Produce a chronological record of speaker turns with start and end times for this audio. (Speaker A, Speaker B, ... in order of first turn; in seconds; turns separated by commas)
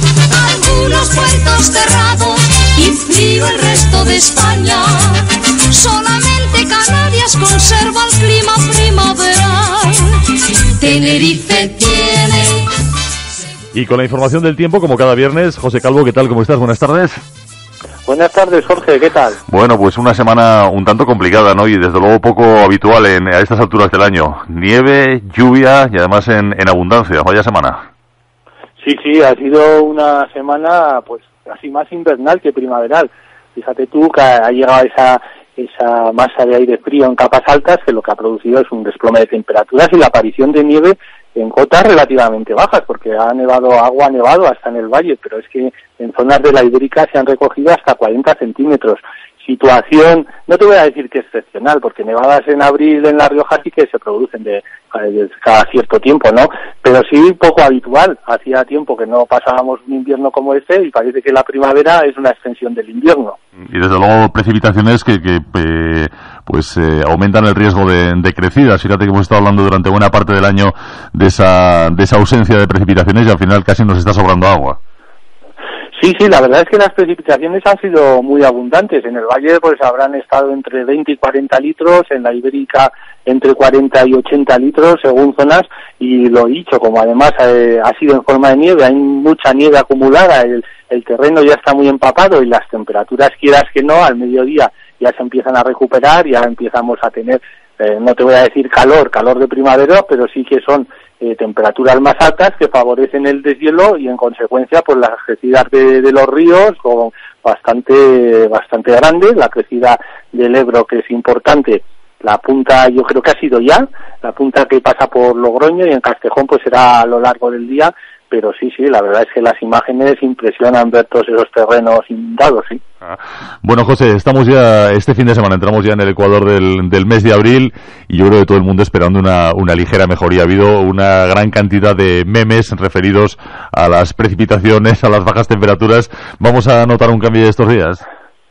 Speaker A: 0.3-12.7, Speaker B: 13.7-17.2, Speaker C: 18.1-19.4, Speaker B: 19.5-27.8, Speaker C: 28.8-63.4, Speaker B: 63.7-74.8, Speaker C: 76.0-122.8, Speaker B: 123.0-138.0